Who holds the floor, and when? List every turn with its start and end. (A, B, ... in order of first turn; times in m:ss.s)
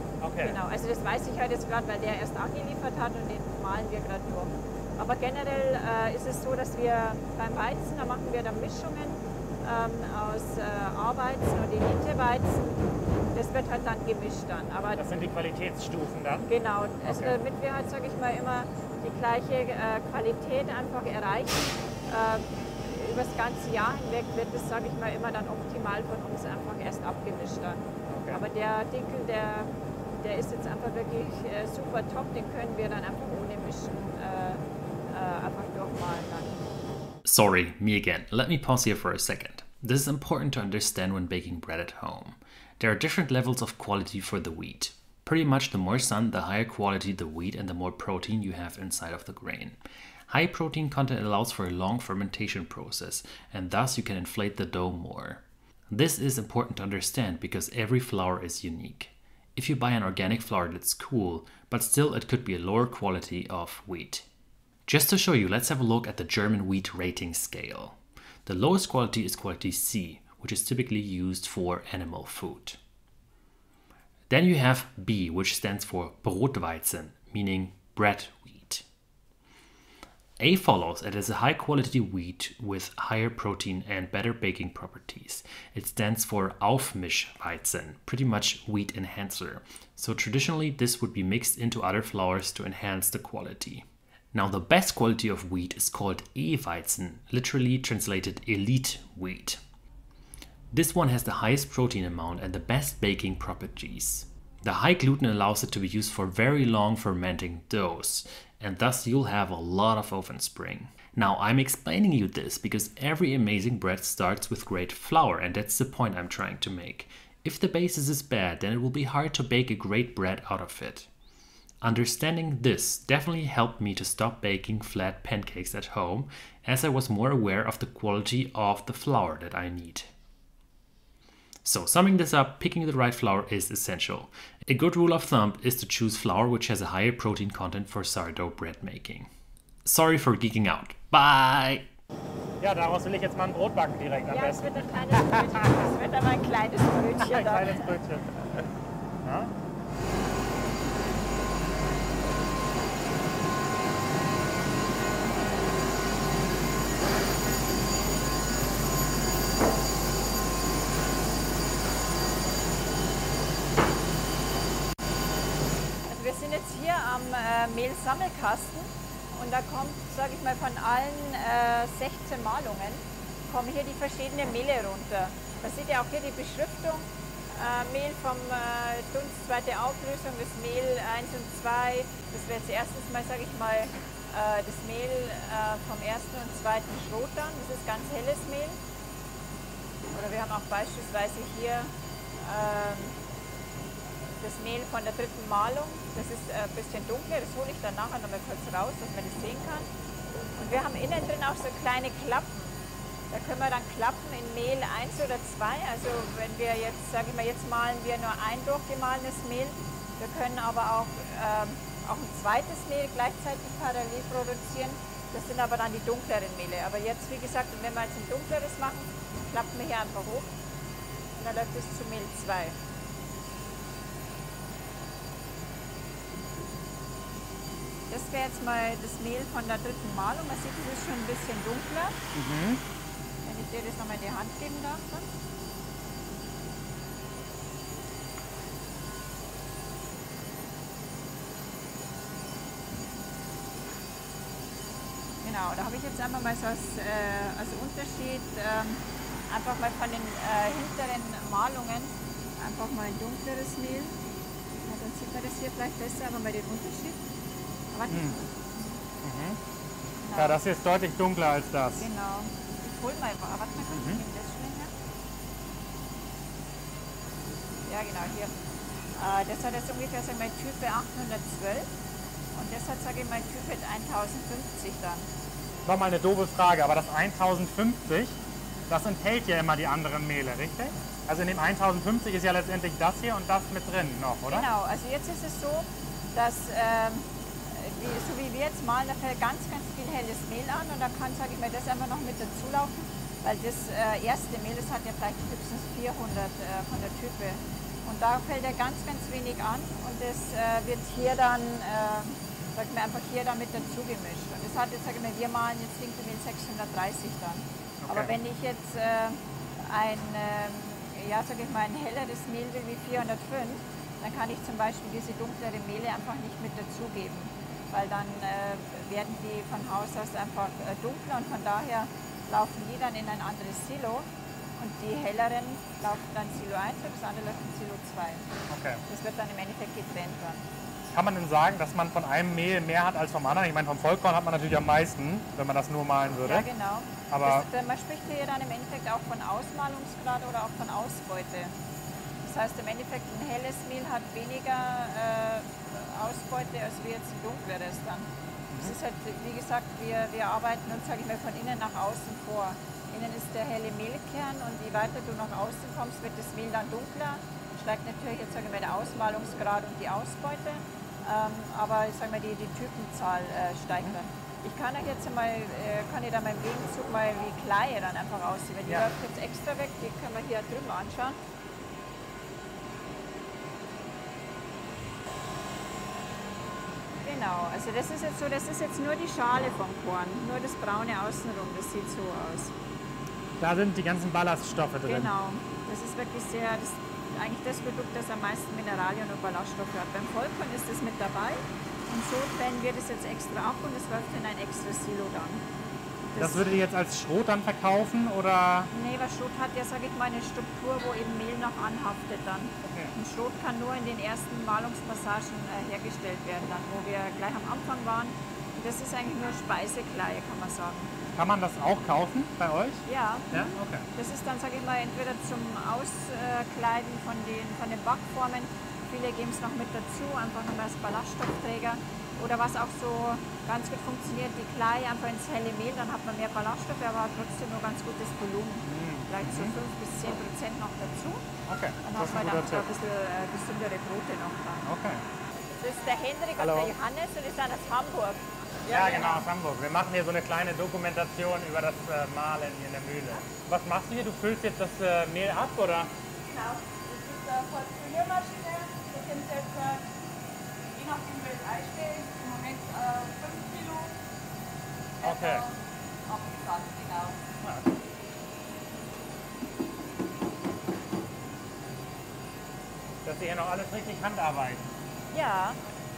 0:00.2-0:00.6 A
0:00.4-0:15.1 B
0:15.0-0:16.5 A
0:16.5-0:36.6 B
0:17.0-0:17.3 A
0:28.1-0:28.4 A
0:37.2-0:49.8 C
0:50.3-1:04.2 C
1:04.9-1:12.8 C
1:14.3-1:18.8 C
1:20.4-1:39.6 C
1:40.7-2:01.1 C
2:01.8-2:10.1 C
2:11.6-2:19.3 C
2:19.8-2:21.8 C
2:22.6-2:25.8 A
2:24.3-2:27.9 B
2:27.2-2:28.6 A
2:29.2-2:29.5 A
2:46.1-3:08.8 B
3:10.1-3:11.9 B
3:12.4-3:13.2 B
3:14.4-3:19.9 B
3:20.6-3:22.8 B
3:23.3-3:40.5 B
3:41.3-3:42.8 B
3:48.1-3:52.2 B
3:52.3-3:52.8 A
3:53.4-3:55.2 B
4:05.4-4:14.1 B
4:14.8-4:17.2 B
4:17.9-4:18.8 B
4:18.1-4:18.4 A
4:19.2-4:19.6 A
4:20.2-4:20.6 B
4:20.4-4:22.0 A
4:22.0-4:24.9 B
4:23.9-4:24.2 A
4:27.9-4:28.5 B
4:29.2-4:31.9 B
4:32.5-4:35.2 B
4:35.8-4:38.4 A
4:38.9-4:44.7 A
4:44.5-5:24.3 B
5:08.0-5:08.3 A
5:24.8-5:28.5 B
5:28.7-5:29.0 A
5:29.1-5:30.6 B
5:31.1-5:36.7 A
5:36.4-5:41.7 B
5:37.3-5:37.7 A
5:42.4-5:48.3 B
5:48.8-6:11.4 B
6:17.2-6:22.7 B
6:23.6-6:25.3 A
6:25.0-6:35.6 B
6:36.3-6:36.7 B
6:36.4-6:38.9 A
6:38.9-6:51.1 B
6:42.8-6:43.1 A
6:51.3-6:54.1 A
6:53.0-7:11.4 B
7:08.8-7:09.8 A
7:11.7-7:12.8 A
7:12.0-7:14.8 B
7:14.8-7:15.2 A
7:15.8-7:19.4 B
7:16.6-7:16.9 A
7:18.9-7:26.1 A
7:26.5-7:30.0 B
7:31.0-7:34.1 B
7:35.2-7:35.6 A
7:35.3-7:35.6 B
7:36.3-7:37.3 B
7:37.6-7:38.0 A
7:43.2-7:44.8 A
7:45.3-7:45.8 B